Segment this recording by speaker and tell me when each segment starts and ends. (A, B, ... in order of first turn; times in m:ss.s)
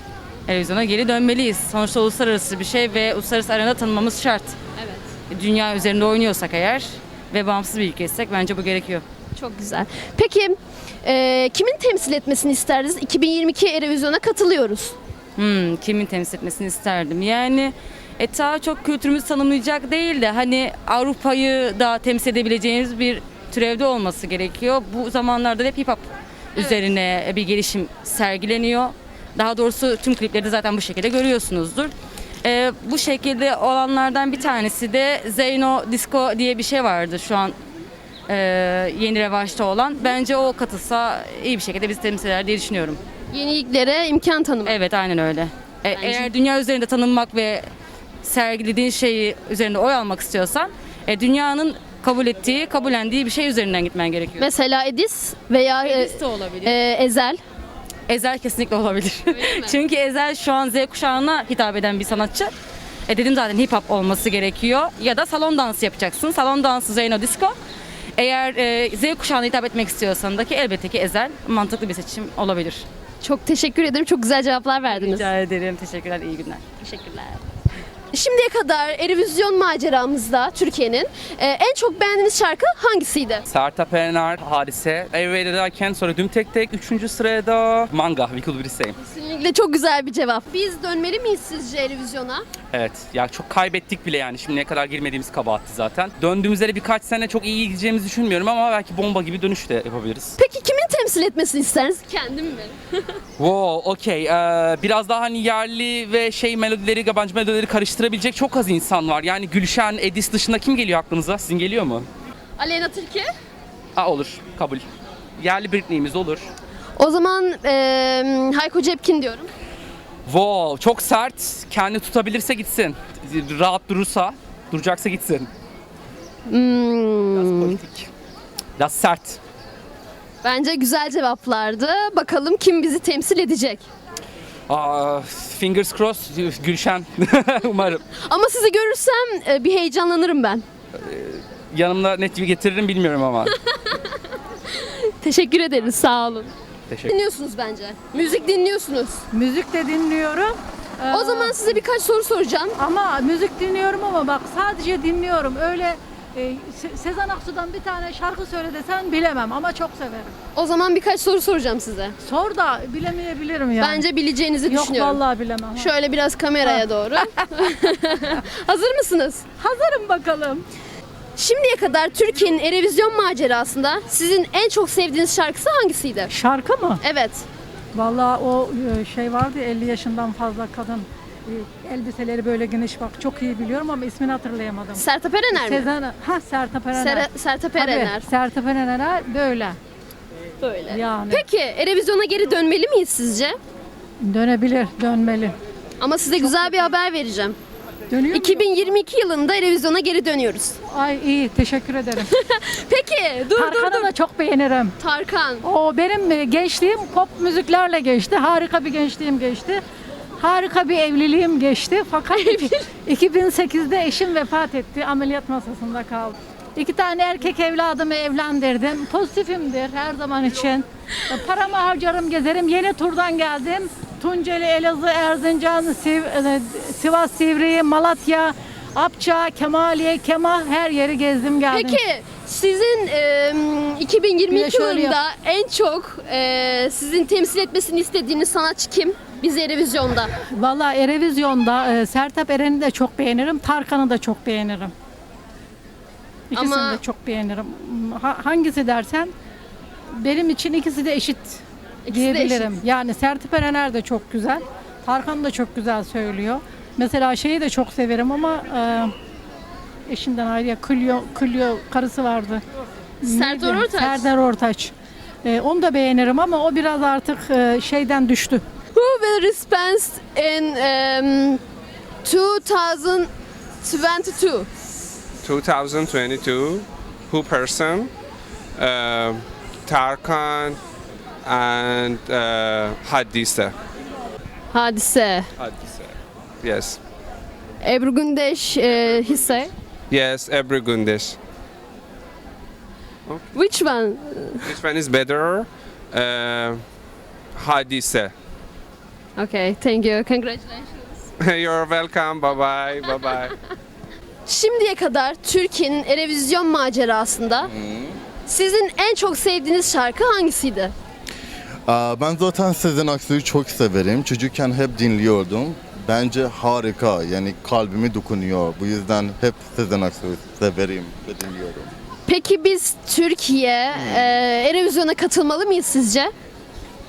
0:00.5-0:04.5 A
0:05.3-0:09.0 A
0:09.4-0:14.9 B
0:15.4-0:26.0 A
0:26.6-0:31.9 A
0:32.4-0:37.6 A
0:38.3-0:43.0 A
0:43.3-0:44.8 B
0:44.6-0:47.7 A
0:45.9-0:46.3 B
0:48.2-0:54.4 A
0:54.4-0:57.4 B
0:55.8-0:56.7 A
0:58.1-1:02.5 A
0:59.3-0:59.8 B
1:03.1-1:07.6 A
1:08.2-1:12.8 A
1:13.2-1:15.3 B
1:14.9-1:17.4 A
1:18.1-1:23.4 B
1:23.5-1:28.9 C
1:29.0-1:32.4 B
1:32.7-1:40.3 C
1:40.4-1:43.0 B
1:43.4-1:52.0 C
1:52.6-1:53.3 B
1:54.0-1:54.8 C
1:55.4-1:56.5 C
1:57.0-1:59.5 B
2:00.3-2:05.5 C
2:06.5-2:07.8 B
2:08.8-2:09.4 C
2:10.4-2:13.8 B
2:14.7-2:17.8 C
2:18.2-2:20.6 B
2:21.7-2:23.3 C
2:23.8-2:24.1 B
2:24.7-2:26.5 B
2:27.1-2:29.2 B
2:29.3-2:31.7 D
2:31.1-2:32.8 B
2:32.8-2:40.3 D
2:40.6-2:42.1 B
2:42.2-2:44.0 D
2:43.8-2:45.2 B
2:44.7-2:45.9 D
2:45.7-2:49.4 B
2:49.6-2:50.6 D
2:51.4-2:56.3 B
2:56.3-2:57.0 D
2:57.0-2:57.4 B
2:57.9-3:09.8 D
3:04.9-3:05.9 B
3:06.9-3:08.2 B
3:10.6-3:13.6 B
3:10.9-3:11.4 D
3:14.2-3:15.6 D
3:16.0-3:17.6 B
3:16.4-3:16.6 D
3:18.1-3:18.6 D
3:18.3-3:20.8 B
3:20.9-3:22.3 D
3:22.2-3:24.1 B
3:23.5-3:25.0 D
3:25.0-3:25.6 B
3:25.6-3:29.8 D
3:30.4-3:52.0 D
3:32.3-3:32.8 B
3:51.7-4:00.3 B
3:54.5-3:55.2 D
4:00.5-4:04.9 D
4:06.5-4:09.3 D
4:06.5-4:07.0 B
4:10.1-4:19.1 D
4:12.0-4:12.8 B
4:20.1-4:22.6 D
4:23.2-4:24.9 D
4:23.2-4:24.3 B
4:25.4-4:28.6 D
4:29.0-4:31.6 B
4:32.2-4:33.3 B
4:33.8-4:34.7 B
4:35.4-4:38.1 E
4:38.8-4:40.8 E
4:41.4-4:43.8 E
4:44.7-4:45.5 B
4:45.6-4:47.0 E
4:47.8-4:49.7 B
4:50.1-4:51.4 E
4:53.5-4:54.7 B
4:54.6-4:56.8 E
4:57.5-4:58.3 E
4:59.4-5:01.2 B
5:01.4-5:03.5 E
5:04.5-5:07.7 B
5:07.6-5:08.2 F
5:08.5-5:10.9 B
5:11.9-5:21.9 F
5:22.3-5:26.3 B